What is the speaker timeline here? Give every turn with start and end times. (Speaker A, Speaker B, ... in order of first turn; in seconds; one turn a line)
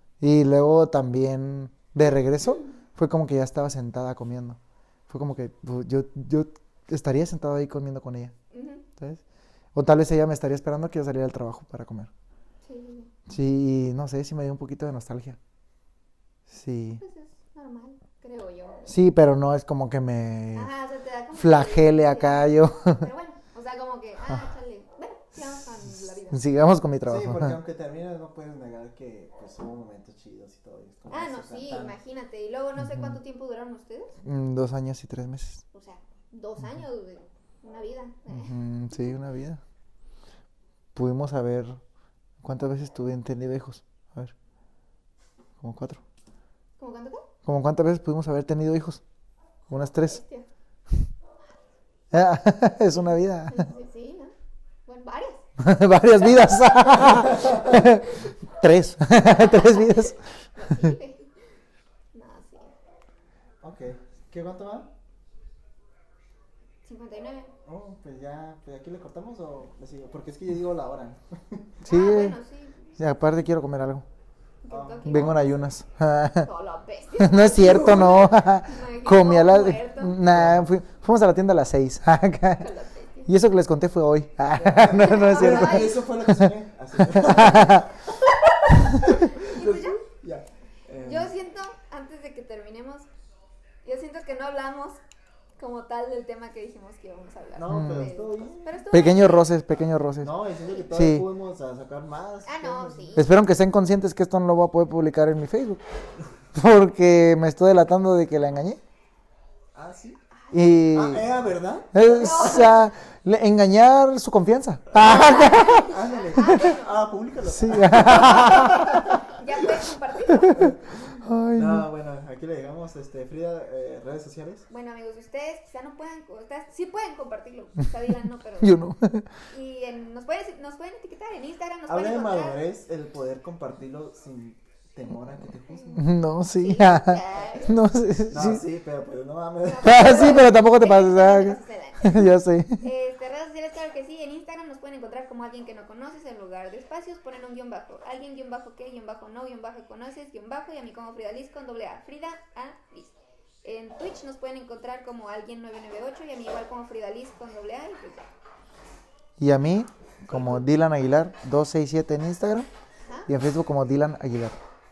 Speaker A: 0.2-8.3
Speaker B: 8.5-8.8
Speaker A: 9.7-12.1
Speaker B: 12.6-13.1
Speaker A: 13.3-15.4
Speaker A: 16.5-17.0
Speaker B: 17.0-19.0
Speaker A: 18.9-20.7
Speaker B: 20.5-26.5
Speaker A: 21.3-23.1
Speaker A: 26.0-27.6
Speaker C: 27.1-31.9
Speaker B: 31.1-34.2
Speaker A: 32.8-33.2
Speaker A: 34.2-35.6
Speaker B: 35.7-39.1
Speaker A: 38.3-39.6
Speaker A: 40.9-41.8
Speaker A: 42.4-44.3
Speaker A: 45.6-46.0
Speaker B: 46.8-47.3
Speaker A: 47.4-49.0
Speaker A: 49.7-50.2
Speaker B: 49.8-50.5
Speaker A: 52.1-53.7
Speaker B: 53.5-54.3
Speaker B: 54.9-55.5
Speaker A: 55.6-60.9
Speaker B: 56.8-58.3
Speaker C: 57.3-57.7
Speaker B: 59.2-61.3
Speaker B: 62.1-62.7
Speaker C: 63.6-64.9
Speaker B: 66.8-67.5
Speaker C: 67.7-71.8
Speaker A: 71.8-72.4
Speaker B: 71.8-73.0
Speaker A: 73.0-74.0
Speaker B: 74.6-75.5
Speaker C: 74.7-75.6
Speaker A: 75.0-76.5
Speaker B: 76.4-80.2
Speaker A: 77.2-82.7
Speaker C: 77.6-78.2
Speaker C: 80.2-80.7
Speaker B: 82.6-83.3
Speaker A: 83.3-87.9
Speaker B: 84.6-86.0
Speaker C: 84.8-88.1
Speaker C: 88.6-91.3
Speaker B: 89.0-90.0
Speaker B: 91.0-93.1
Speaker B: 93.8-95.0
Speaker B: 95.6-99.5
Speaker C: 97.5-98.8
Speaker A: 97.7-98.1
Speaker A: 98.9-100.4
Speaker C: 99.8-103.2
Speaker A: 100.9-101.3
Speaker B: 102.5-103.3
Speaker A: 103.2-105.8
Speaker A: 106.5-108.8
Speaker C: 109.7-110.2
Speaker B: 110.3-110.8
Speaker A: 110.5-111.3
Speaker C: 110.9-111.9
Speaker A: 111.9-116.0
Speaker B: 112.0-112.9
Speaker C: 115.0-119.0
Speaker B: 115.0-117.1
Speaker A: 117.4-119.2
Speaker B: 117.8-120.6
Speaker A: 120.3-121.9
Speaker C: 120.5-124.7
Speaker B: 124.7-128.8
Speaker A: 128.6-129.3
Speaker B: 129.5-132.6
Speaker C: 131.9-136.0
Speaker B: 135.7-137.8
Speaker A: 135.9-138.6
Speaker C: 138.3-140.4
Speaker B: 139.6-158.3
Speaker A: 139.8-142.8
Speaker A: 159.4-162.7
Speaker B: 160.3-160.6
Speaker B: 163.1-163.3
Speaker A: 163.3-164.6